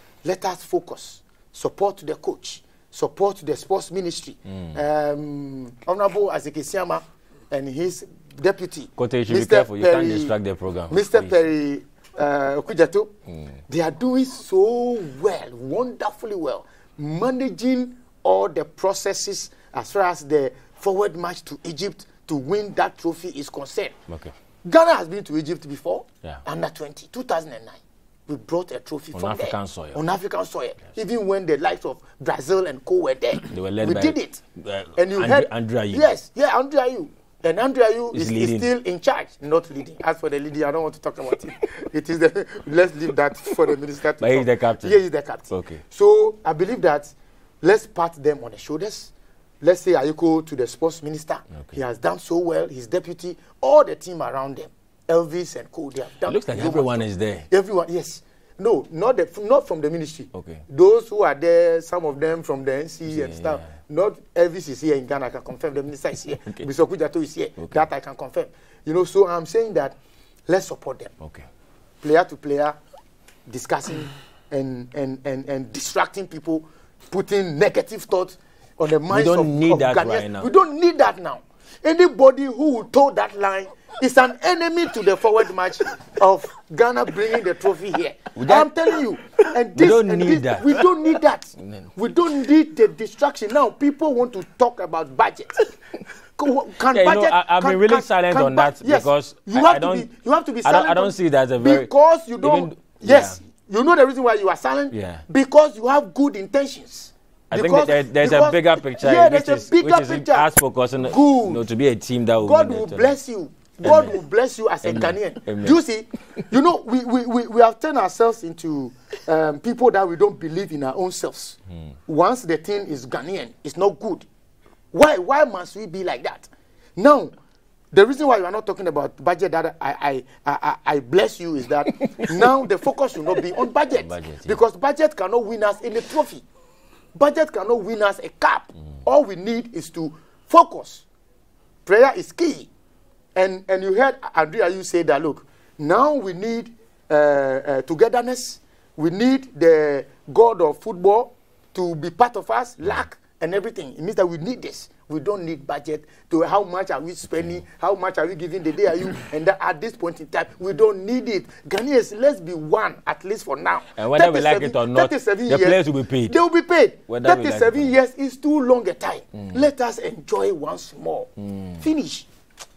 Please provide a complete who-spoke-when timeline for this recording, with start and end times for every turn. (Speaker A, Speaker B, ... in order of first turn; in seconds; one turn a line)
Speaker A: 0.2-10.3
Speaker B: 9.0-11.4
Speaker A: 10.9-13.1
Speaker A: 13.7-23.9
Speaker A: 24.6-34.4
Speaker B: 29.1-30.0
Speaker B: 33.5-36.1
Speaker A: 35.0-70.0
Speaker B: 38.1-38.7
Speaker B: 44.2-45.8
Speaker B: 56.2-57.5
Speaker B: 60.3-60.6
Speaker B: 63.1-63.6
Speaker B: 67.6-67.8
Speaker A: 70.5-71.1
Speaker B: 71.2-71.5
Speaker A: 72.0-72.8
Speaker A: 73.5-95.7
Speaker B: 79.1-80.5
Speaker B: 88.3-88.7
Speaker B: 89.7-90.8
Speaker B: 91.6-91.9
Speaker A: 96.3-111.6
Speaker B: 96.9-100.1
Speaker B: 100.6-103.4
Speaker B: 104.9-105.2
Speaker B: 107.5-113.2
Speaker A: 112.4-124.3
Speaker B: 113.8-114.2
Speaker B: 114.8-115.8
Speaker A: 124.9-127.3
Speaker A: 127.9-136.4
Speaker B: 131.9-132.6
Speaker B: 133.9-134.6
Speaker A: 137.1-141.0
Speaker A: 141.8-142.7
Speaker A: 143.3-172.3
Speaker B: 163.9-166.4
Speaker B: 167.1-167.9
Speaker B: 171.4-171.8